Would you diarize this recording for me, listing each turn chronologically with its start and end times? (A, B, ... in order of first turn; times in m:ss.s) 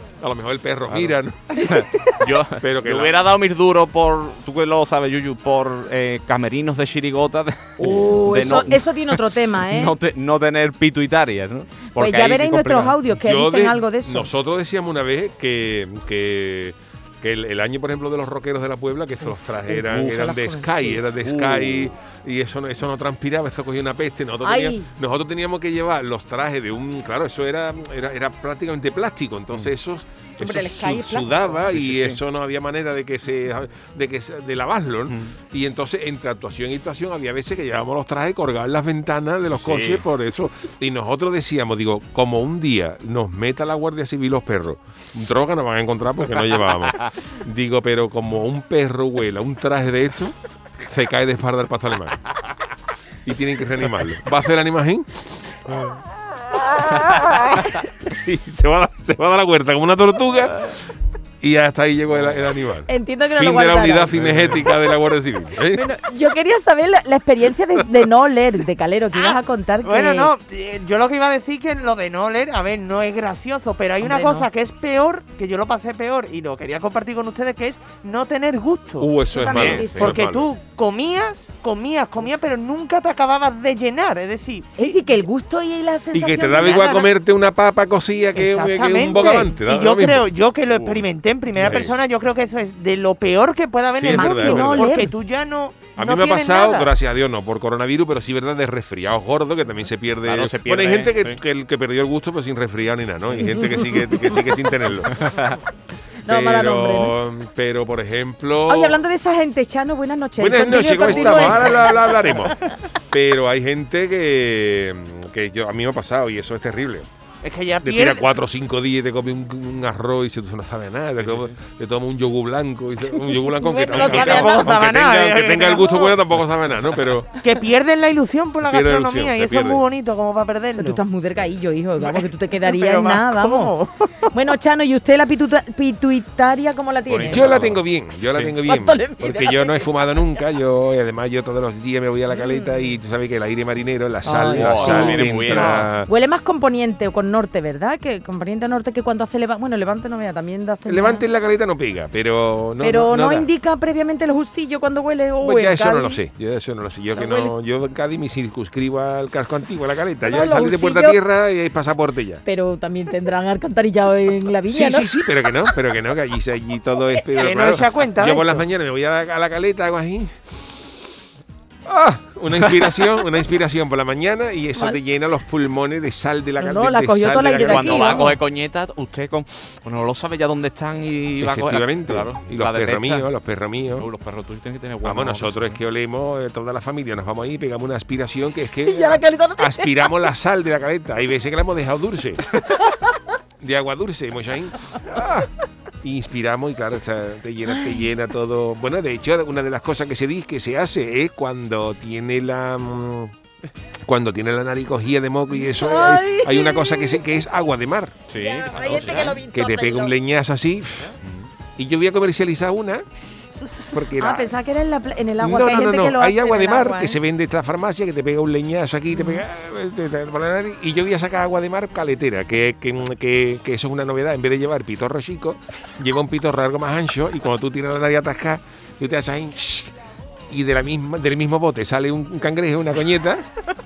0:00.2-0:01.7 A
0:01.6-0:13.0 B
0:02.6-0:03.2 A
0:07.8-0:08.1 A
0:07.8-0:09.9 C
0:12.0-0:14.3 C
0:13.2-0:52.2 A
0:19.7-0:21.0 C
0:19.9-0:20.3 B
0:21.2-0:21.9 B
0:24.4-0:24.9 C
0:30.4-0:31.6 C
0:31.7-0:32.2 B
0:39.5-0:40.0 B
0:53.2-0:55.2 A
0:56.9-1:00.7 A
1:01.4-1:05.8 A
1:02.9-1:04.2 C
1:04.2-1:04.6 B
1:05.7-1:10.3 C
1:09.2-1:19.1 D
1:14.0-1:14.5 C
1:19.0-1:20.5 A
1:19.3-1:20.2 C
1:19.5-1:19.9 B
1:20.0-1:25.0 D
1:24.8-1:27.1 C
1:26.1-1:30.3 A
1:28.4-1:36.9 D
1:30.7-1:31.0 B
1:31.6-1:31.9 B
1:31.6-1:32.0 A
1:33.9-1:35.1 A
1:34.1-1:35.1 C
1:36.0-1:45.3 A
1:40.2-1:41.4 B
1:43.5-1:43.8 C
1:45.3-1:45.5 B
1:46.2-1:47.1 C
1:46.3-1:49.0 A
1:48.7-1:52.1 C
1:50.4-1:52.6 A
1:51.1-1:51.7 B
1:53.1-1:57.1 A
1:57.4-1:58.2 D
1:57.8-2:07.3 A
2:01.2-2:01.6 B
2:03.4-2:04.7 C
2:03.9-2:06.2 D
2:07.4-2:11.0 D
2:08.6-2:09.8 A
2:10.8-2:13.7 C
2:12.0-2:14.3 D
2:14.3-2:17.5 C
2:17.1-2:18.5 B
2:17.3-2:26.1 A
2:18.6-2:19.9 C
2:22.3-2:22.8 C
2:24.2-2:31.2 C
2:24.4-2:25.9 B
2:30.9-2:33.5 A
2:32.8-2:36.2 C
2:35.4-2:42.4 A
2:37.2-2:37.5 C
2:40.2-2:41.2 C
2:42.5-2:45.1 C
2:44.7-2:50.3 A
2:47.4-2:48.6 D
2:51.9-2:58.3 A
2:56.6-2:58.4 C
2:57.7-3:03.3 B
3:01.4-3:04.1 A
3:04.0-3:05.8 B
3:05.0-3:12.4 A
3:08.8-3:10.2 C
3:13.6-3:15.5 A
3:16.0-3:23.3 A
3:17.8-3:18.0 C
3:24.0-3:28.2 A
3:25.5-3:27.2 C
3:28.3-3:29.4 B
3:28.4-3:30.1 C
3:29.5-3:31.1 A
3:31.2-3:31.5 B
3:31.8-3:33.0 A
3:33.9-3:34.5 A
3:34.1-3:37.2 C
3:35.4-3:49.9 A
3:39.1-3:39.4 C
3:50.5-3:53.4 A